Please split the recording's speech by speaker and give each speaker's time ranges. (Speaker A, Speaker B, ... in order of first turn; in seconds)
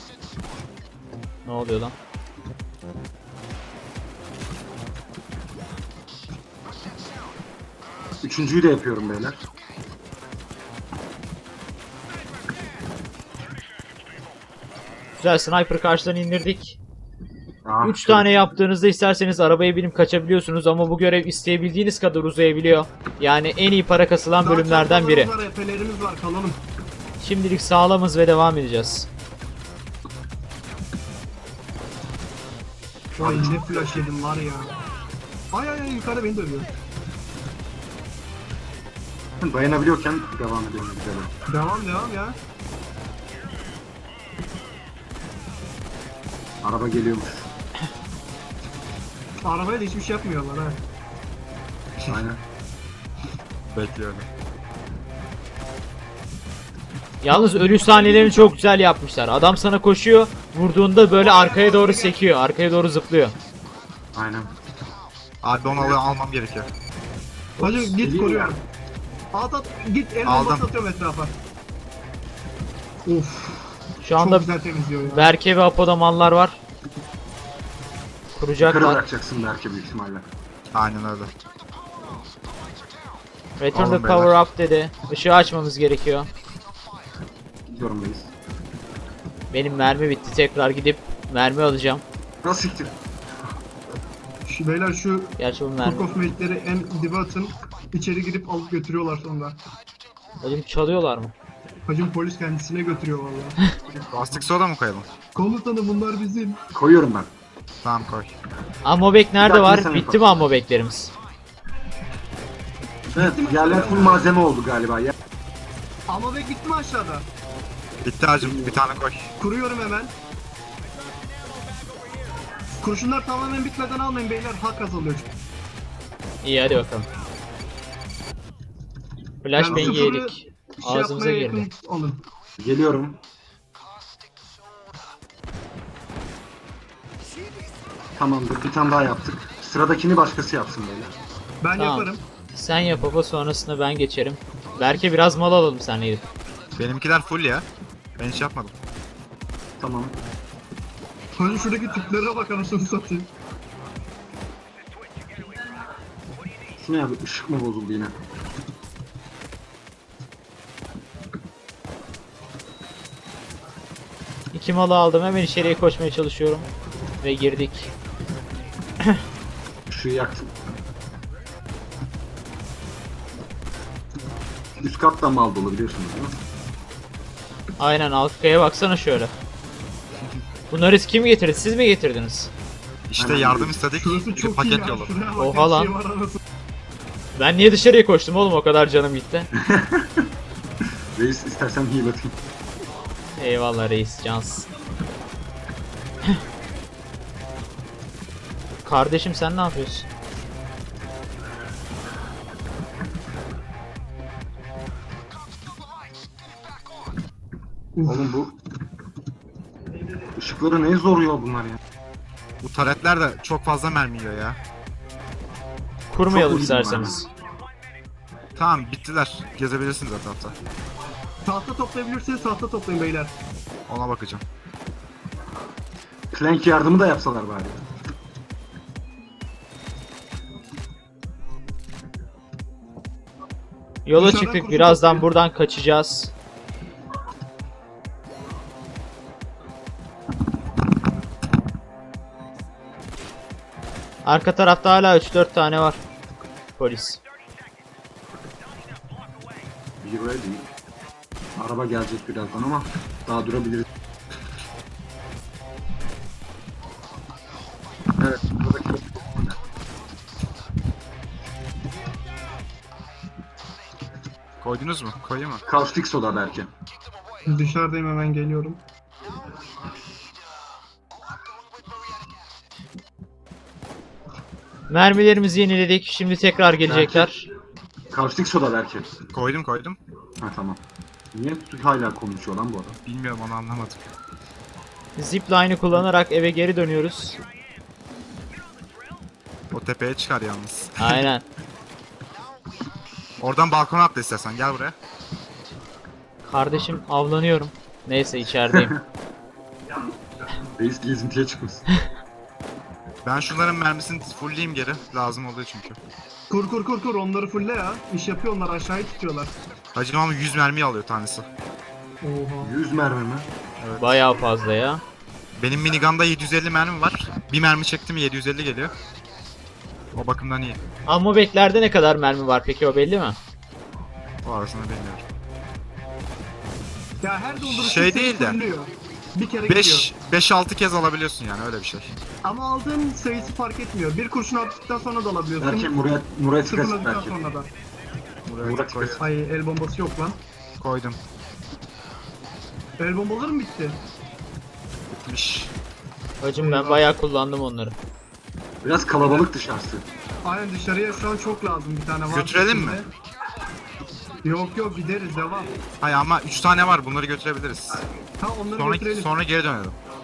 Speaker A: 1.4-1.9, 15.2-16.8, 17.8-25.3, 27.2-29.1, 57.2-63.4, 74.0-74.5, 75.1-76.6, 78.4-79.0, 83.6-86.3, 89.5-92.0, 95.4-96.1, 100.4-101.3, 108.8-111.1, 126.4-127.1, 129.4-131.7, 141.8-146.2, 164.5-166.7, 167.2-167.9, 177.8-179.3, 180.7-182.5, 185.4-185.9, 187.4-189.5, 193.4-194.7, 198.8-200.1, 216.1-217.3, 234.1-236.3, 244.2-246.0, 246.8-247.2, 274.9-277.5, 285.2-287.4, 291.0-291.4, 296.5-299.0, 314.0-315.0, 321.1-323.4, 346.4-348.0
Speaker B: 8.2-9.4, 17.6-18.4, 33.2-34.0, 39.4-41.3, 46.6-47.5, 52.1-52.4, 64.2-64.5, 65.7-66.0, 67.6-68.6, 78.6-80.3, 87.7-88.3, 92.4-92.9, 106.7-107.3, 109.4-110.4, 113.1-115.1, 118.4-118.8, 129.7-130.1, 132.6-133.2, 138.2-141.2, 149.8-150.2, 156.8-158.2, 169.9-170.5, 174.8-176.4, 183.2-183.8, 189.5-190.3, 191.2-192.4, 208.0-208.6, 210.3-211.8, 216.3-217.2, 226.3-227.8, 250.0-250.7, 251.6-253.9, 258.2-259.6, 265.7-266.7, 276.9-277.3, 278.1-279.1, 280.4-280.8, 281.3-283.0, 298.7-299.0, 300.7-301.9, 312.6-313.5, 335.6-337.4, 338.6-339.2, 348.8-350.1
Speaker C: 24.4-26.6, 33.2-34.8, 35.5-36.7, 41.5-42.4, 49.4-50.8, 57.3-58.6, 61.1-62.2, 67.6-68.6, 69.3-71.3, 73.0-75.3, 94.5-99.6, 101.9-103.6, 105.3-106.6, 113.1-114.3, 116.1-117.3, 119.4-120.1, 122.8-125.3, 129.6-132.2, 141.6-142.2, 151.4-153.3, 183.9-186.4, 208.0-208.3, 221.4-223.3, 234.2-235.2, 267.5-268.8, 306.5-309.5, 312.2-312.7, 327.2-330.1, 332.4-336.1, 336.6-337.7, 339.2-340.4, 343.0-344.0, 346.6-347.1, 350.4-353.1, 354.4-355.7, 358.4-359.3
Speaker D: 53.6-54.3, 65.4-66.7, 70.2-70.7, 80.7-81.3, 83.7-84.3, 104.1-105.1, 107.8-108.3, 118.0-119.3, 146.8-147.7, 148.2-148.7, 183.1-185.2, 212.6-214.6, 218.6-220.5, 223.9-224.4, 264.6-265.6, 279.3-280.0, 283.1-284.0, 289.7-291.3, 293.4-295.0, 303.2-306.0, 309.9-311.5, 313.8-314.2, 315.6-318.9, 320.1-320.8, 324.4-325.2, 327.6-328.6, 329.6-332.1, 338.4-339.3, 340.8-341.2, 345.3-345.7, 352.3-353.1, 356.0-358.0, 358.8-360.0